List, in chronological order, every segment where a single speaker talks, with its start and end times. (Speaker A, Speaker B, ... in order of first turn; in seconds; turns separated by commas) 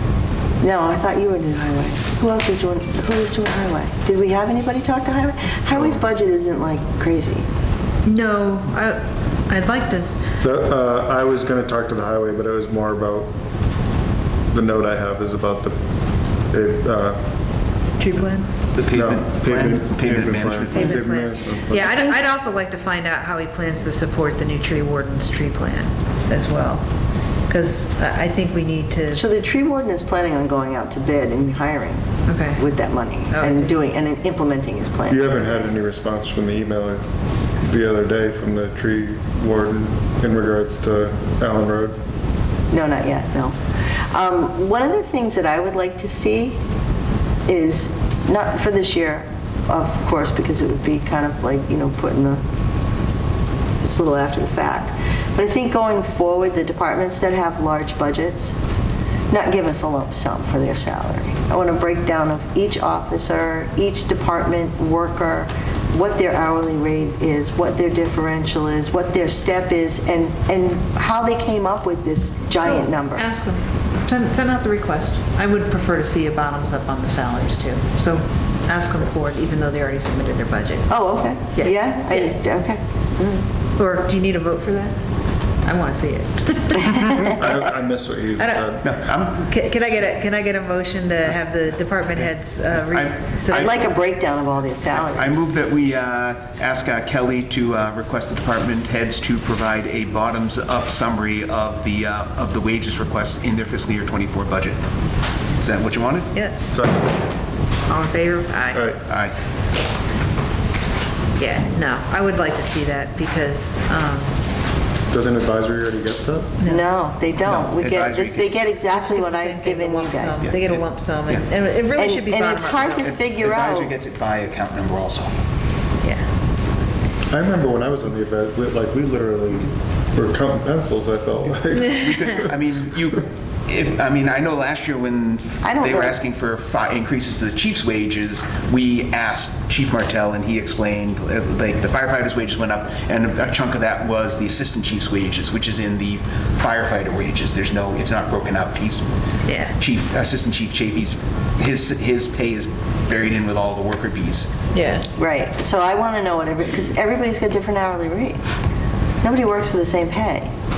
Speaker A: 0.6-7.5, Speaker B: 8.1-10.2, Speaker C: 10.4-13.3, Speaker C: 14.5-15.8, Speaker C: 16.5-17.2, Speaker B: 18.0-18.5, Speaker D: 18.8-21.0, Speaker C: 18.9-22.0, Speaker B: 20.7-26.8, Speaker B: 27.5-29.2, Speaker A: 29.1-32.1, Speaker B: 32.3-32.7, Speaker A: 32.6-35.3, Speaker B: 33.3-33.8, Speaker C: 35.1-37.0, Speaker C: 37.6-42.0, Speaker A: 42.7-43.6, Speaker A: 44.1-46.6, Speaker A: 47.5-52.4, Speaker A: 53.8-58.5, Speaker A: 59.3-73.3, Speaker B: 72.6-80.9, Speaker A: 80.9-83.4, Speaker B: 81.5-82.4, Speaker B: 83.8-85.0, Speaker B: 85.6-87.5, Speaker C: 87.0-88.8, Speaker B: 88.4-93.9, Speaker D: 88.8-89.4, Speaker D: 92.9-93.9, Speaker A: 93.5-95.4, Speaker D: 94.9-104.8, Speaker D: 105.5-106.3, Speaker C: 106.7-107.2, Speaker B: 107.9-108.9, Speaker D: 109.1-109.3, Speaker B: 111.4-114.3, Speaker C: 115.1-116.5, Speaker B: 116.6-116.9, Speaker A: 116.7-120.5, Speaker D: 117.4-118.7, Speaker B: 118.9-123.1, Speaker D: 120.4-121.5, Speaker A: 122.0-124.0, Speaker D: 123.0-125.3, Speaker C: 127.3-132.5, Speaker D: 131.7-149.1, Speaker A: 135.6-136.2, Speaker B: 149.5-149.7, Speaker D: 149.8-154.5, Speaker B: 154.7-155.1, Speaker A: 155.2-158.4, Speaker A: 159.2-160.5